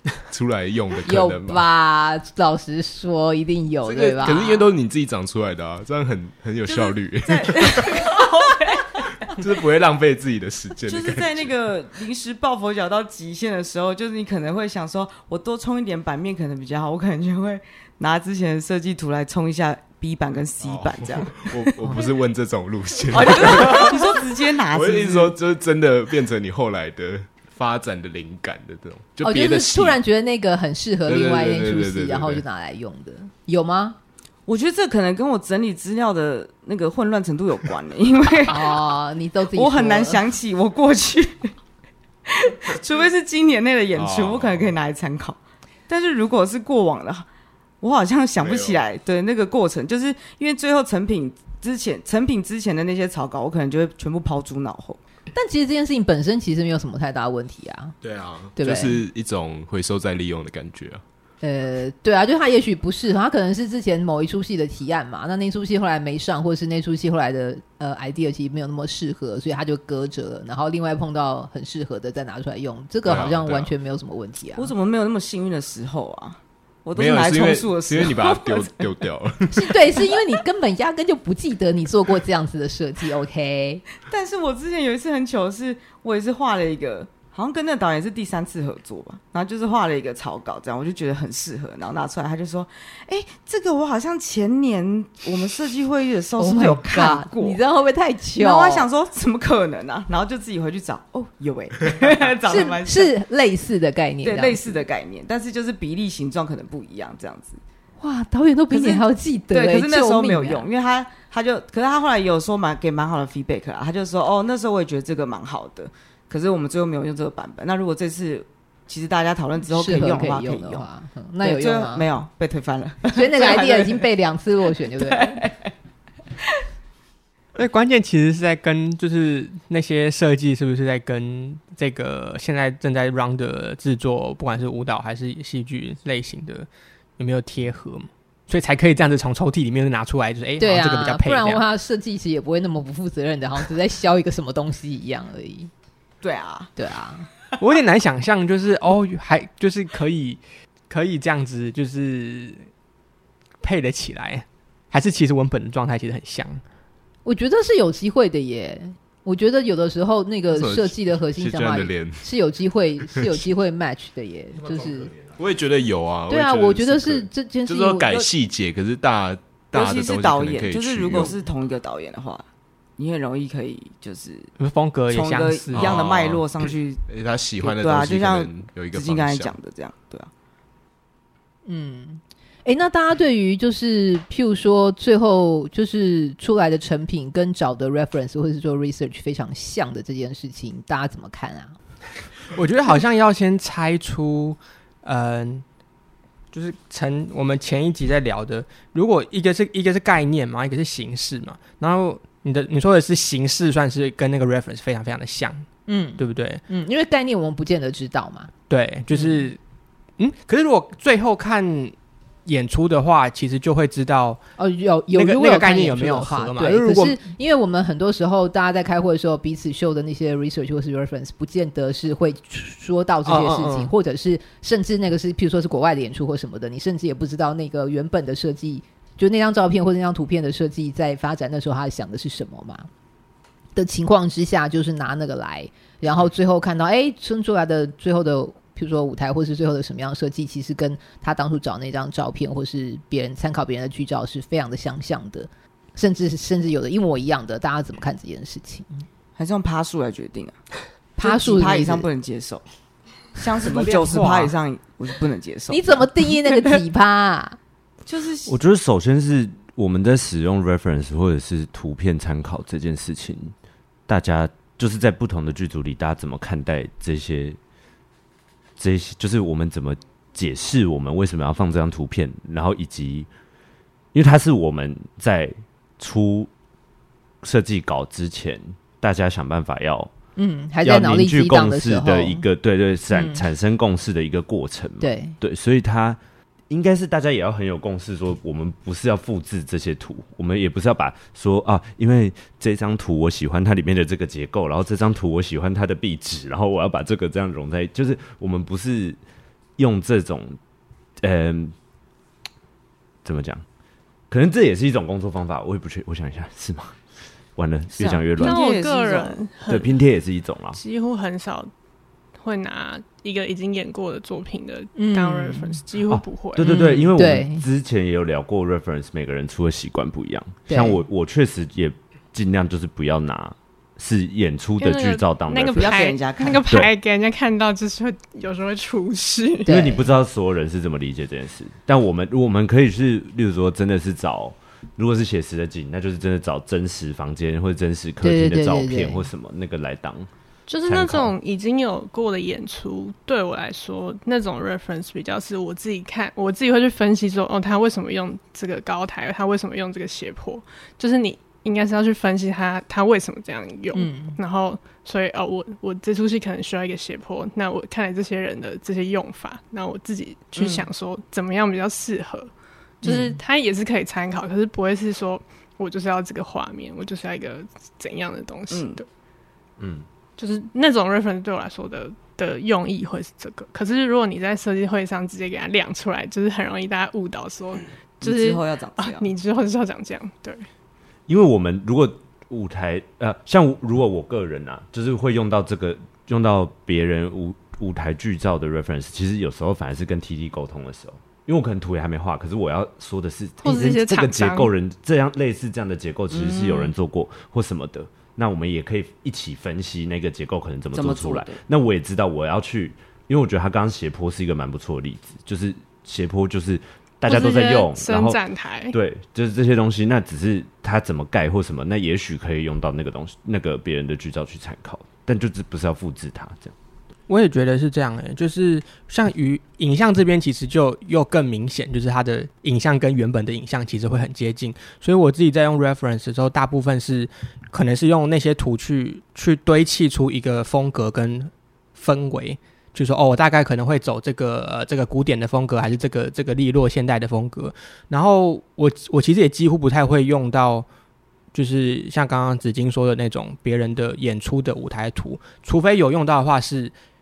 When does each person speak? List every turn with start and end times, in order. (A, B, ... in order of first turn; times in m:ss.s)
0:00.2-0:01.6 A
0:01.1-0:04.7 B
0:03.8-0:08.0 A
0:06.7-0:09.0 C
0:09.3-0:11.5 A
0:10.9-0:22.0 C
0:20.6-0:30.0 A
0:23.1-0:25.3 C
0:29.2-0:34.0 B
0:31.1-0:32.4 A
0:34.5-0:38.7 C
0:38.5-0:40.2 B
0:39.5-0:41.5 C
0:42.3-0:47.3 C
0:44.0-0:44.7 A
0:47.8-0:55.0 C
0:48.4-0:48.8 A
0:55.3-0:58.0 B
0:58.0-1:01.0 A
0:58.6-0:59.0 B
1:01.4-1:14.7 B
1:13.0-1:13.7 A
1:14.6-1:19.0 C
1:17.0-1:19.6 A
1:19.5-1:23.8 B
1:24.1-1:37.6 C
1:36.4-1:38.9 B
1:38.4-1:43.1 C
1:42.5-1:44.8 B
1:44.2-1:47.6 C
1:48.0-1:50.6 B
1:48.7-2:00.8 C
1:59.7-2:02.0 B
2:01.4-2:04.0 C
2:03.1-2:05.4 B
2:05.0-2:05.7 C
2:07.6-2:21.6 D
2:20.6-2:25.7 B
2:26.2-2:26.7 C
2:26.8-2:27.3 B
2:27.6-2:32.7 D
2:33.6-2:36.6 D
2:37.2-2:45.1 B
2:40.5-2:42.3 A
2:43.2-2:43.4 A
2:44.8-2:51.4 A
2:46.3-2:48.3 B
2:49.7-2:52.4 C
2:53.0-2:54.5 C
2:54.6-2:56.0 D
2:55.1-2:57.0 C
2:55.7-2:59.6 A
2:57.6-3:00.3 C
3:01.7-3:11.8 B
3:12.5-3:15.6 D
3:16.5-3:25.7 D
3:25.9-3:28.5 B
3:26.2-3:26.6 D
3:28.7-3:29.6 D
3:29.1-3:29.5 B
3:30.2-3:34.4 D
3:34.6-3:52.9 B
3:35.1-3:37.3 D
3:43.2-3:43.9 D
3:53.8-4:09.0 B
4:09.4-4:10.6 C
4:11.2-4:12.1 B
4:11.2-4:12.7 C
4:13.3-4:16.1 C
4:13.6-4:14.5 D
4:15.7-4:17.6 B
4:18.1-4:18.6 C
4:18.5-4:23.6 E
4:24.1-4:27.6 E
4:28.8-4:33.3 E
4:34.1-4:36.5 E
4:37.4-4:40.1 E
4:40.4-4:42.4 B
4:40.8-4:46.2 E
4:43.1-4:43.4 B
4:45.0-4:45.4 B
4:46.7-4:59.2 E
4:59.8-5:00.6 E
5:01.2-5:01.8 E
5:03.2-5:03.6 E
5:04.3-5:07.0 E
5:07.6-5:08.6 E
5:08.0-5:09.5 C
5:08.4-5:10.0 F
5:09.6-5:10.8 E
5:10.7-5:11.7 F
5:12.4-5:16.7 F
5:15.0-5:15.8 B
5:16.1-5:26.0 E
5:16.6-5:17.6 B
5:20.7-5:21.0 B
5:24.8-5:29.7 F
5:25.8-5:26.7 C
5:29.6-5:30.1 B
5:29.7-5:40.3 E
5:38.2-5:39.2 B
5:40.7-6:09.1 F
5:40.9-5:41.3 E
5:53.9-5:54.4 B
6:00.6-6:00.8 B
6:03.0-6:03.4 B
6:08.7-6:09.0 C
6:09.8-6:10.1 E
6:10.4-6:20.7 F
6:18.2-6:19.3 C
6:21.3-6:48.4 E
6:33.6-6:34.7 F
6:36.3-6:36.9 C
6:40.9-6:41.6 C
6:47.3-6:49.0 F
6:48.9-6:56.8 E
6:57.3-7:20.9 D
7:21.5-7:27.0 D